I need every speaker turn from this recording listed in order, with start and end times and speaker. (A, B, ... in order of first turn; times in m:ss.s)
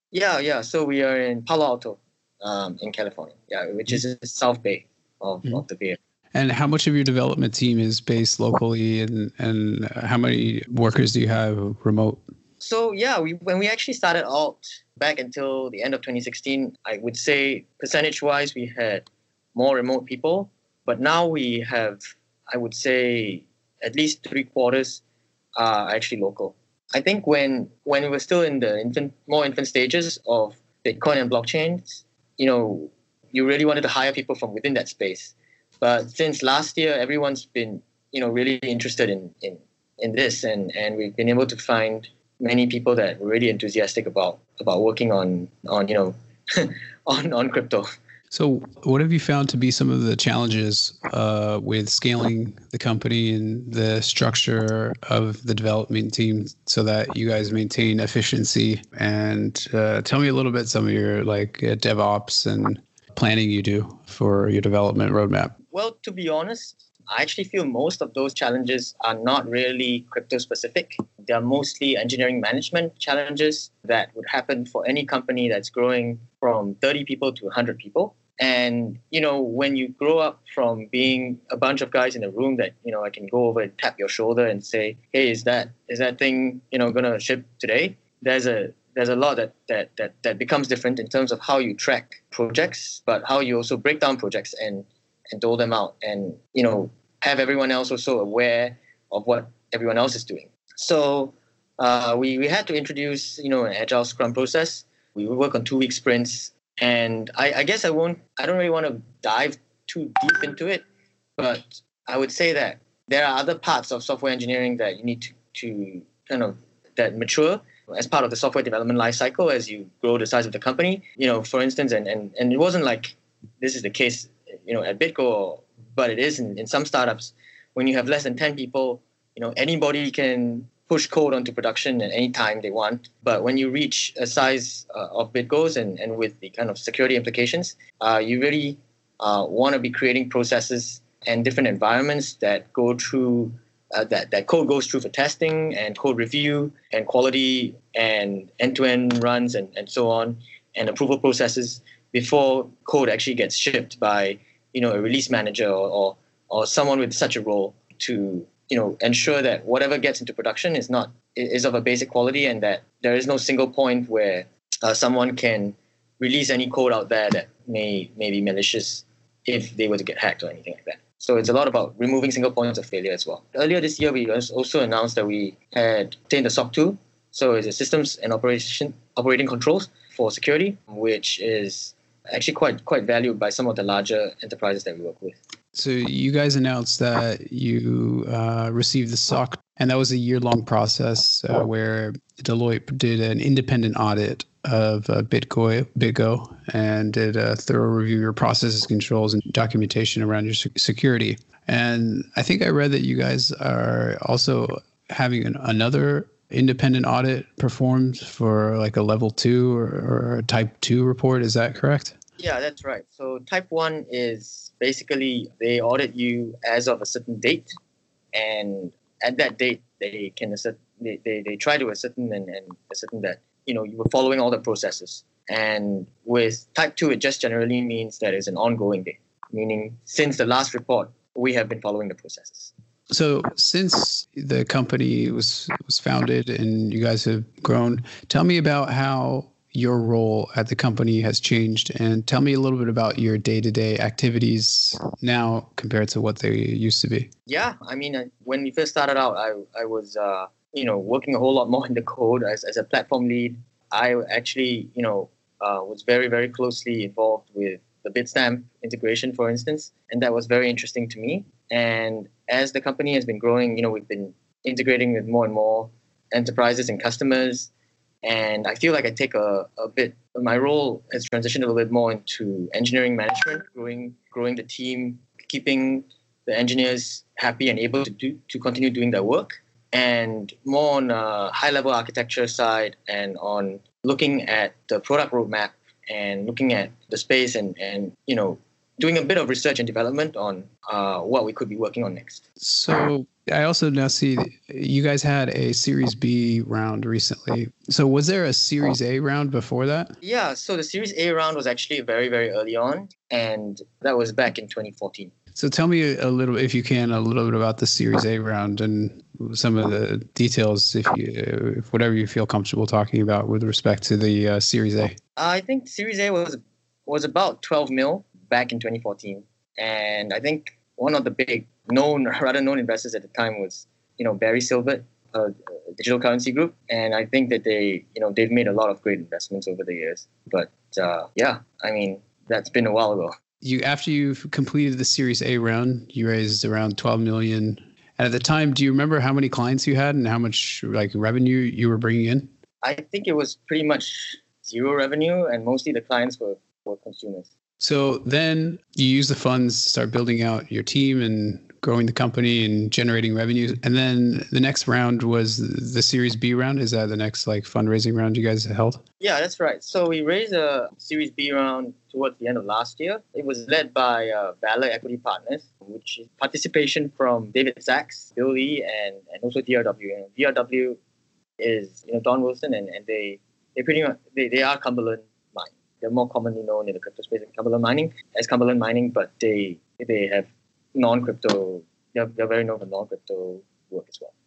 0:00.1-0:06.0 A
0:06.3-0:12.2 B
0:12.6-0:25.0 A
0:25.6-0:47.9 A
0:48.3-1:05.5 B
1:05.7-1:50.8 A
1:51.4-3:05.4 A
3:05.8-3:32.2 B
3:32.4-3:37.7 A
3:38.3-3:52.7 A
3:53.1-4:07.3 B
4:07.5-4:27.7 A
4:28.2-4:52.4 A
4:52.6-5:00.2 B
5:00.2-5:05.3 A
5:05.6-5:15.2 B
5:15.4-5:33.4 A
5:33.6-5:42.5 B
5:42.8-5:47.5 A
5:47.8-5:59.0 B
5:59.2-6:11.0 A
6:11.6-6:24.3 A